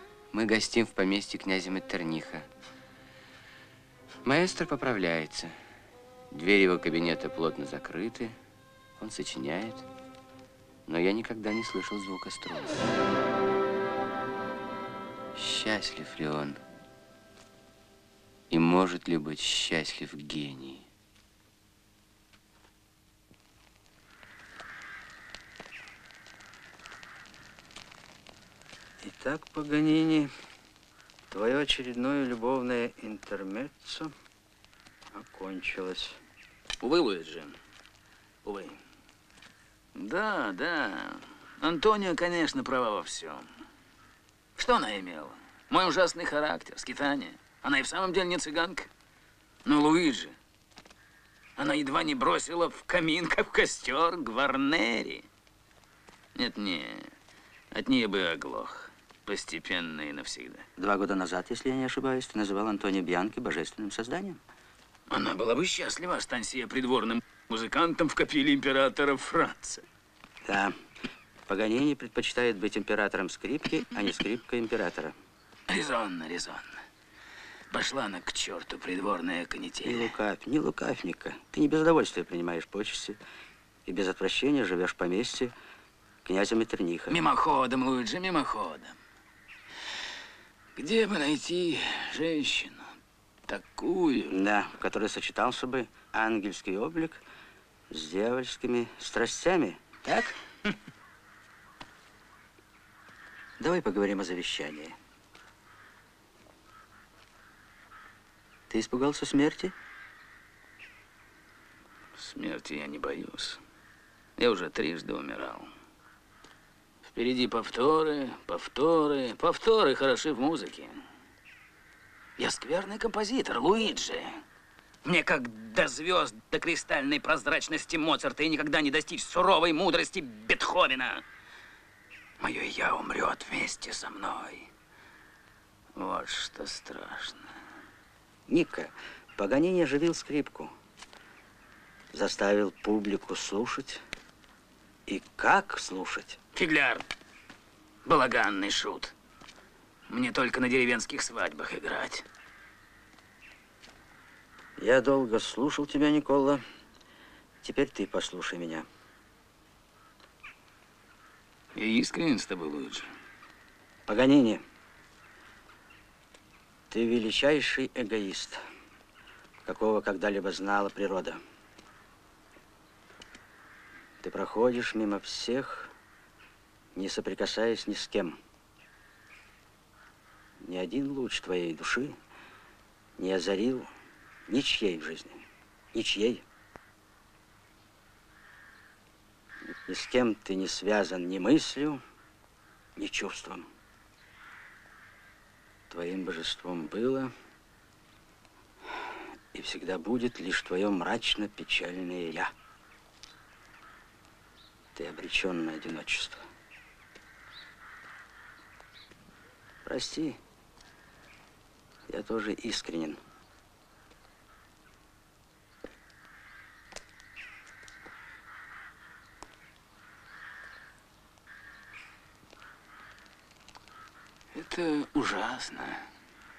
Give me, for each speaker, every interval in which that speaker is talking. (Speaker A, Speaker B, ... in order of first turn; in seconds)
Speaker A: 0.3-2.5, 4.2-5.5, 6.3-8.4, 9.0-9.9, 10.9-12.9, 15.4-16.6, 18.5-20.9
Speaker B: 29.0-30.3, 31.3-34.1, 35.1-36.2, 60.8-64.4, 70.5-70.8, 71.5-75.2, 79.8-83.2, 83.9-85.5, 86.2-87.2, 94.3-97.2, 97.9-100.3, 103.6-105.0, 108.7-109.7, 138.5-140.7, 142.1-144.0, 145.1-146.4, 154.8-156.6, 157.6-158.9, 164.1-164.6, 166.9-168.6, 169.7-171.4, 174.2-175.9, 176.9-178.4, 180.6-182.2, 183.2-183.9, 184.5-186.4, 189.9-192.0, 193.0-193.7, 195.9-197.3, 199.5-202.5, 204.9-206.4, 209.8-210.4, 212.1-213.2
Speaker C: 36.8-37.6, 38.5-38.8, 40.0-43.5, 44.6-48.9, 49.6-50.4, 51.6-55.2, 56.4-57.1, 57.7-60.7, 65.1-69.8, 75.7-76.7, 77.7-80.1, 87.1-89.0, 90.8-92.9, 93.5-94.3, 112.2-113.6, 114.4-115.7, 117.1-121.0, 122.4-124.4, 125.0-131.2, 132.4-134.7, 136.0-137.5, 146.6-147.1, 148.1-149.1, 150.1-152.2, 161.8-163.1, 224.5-226.1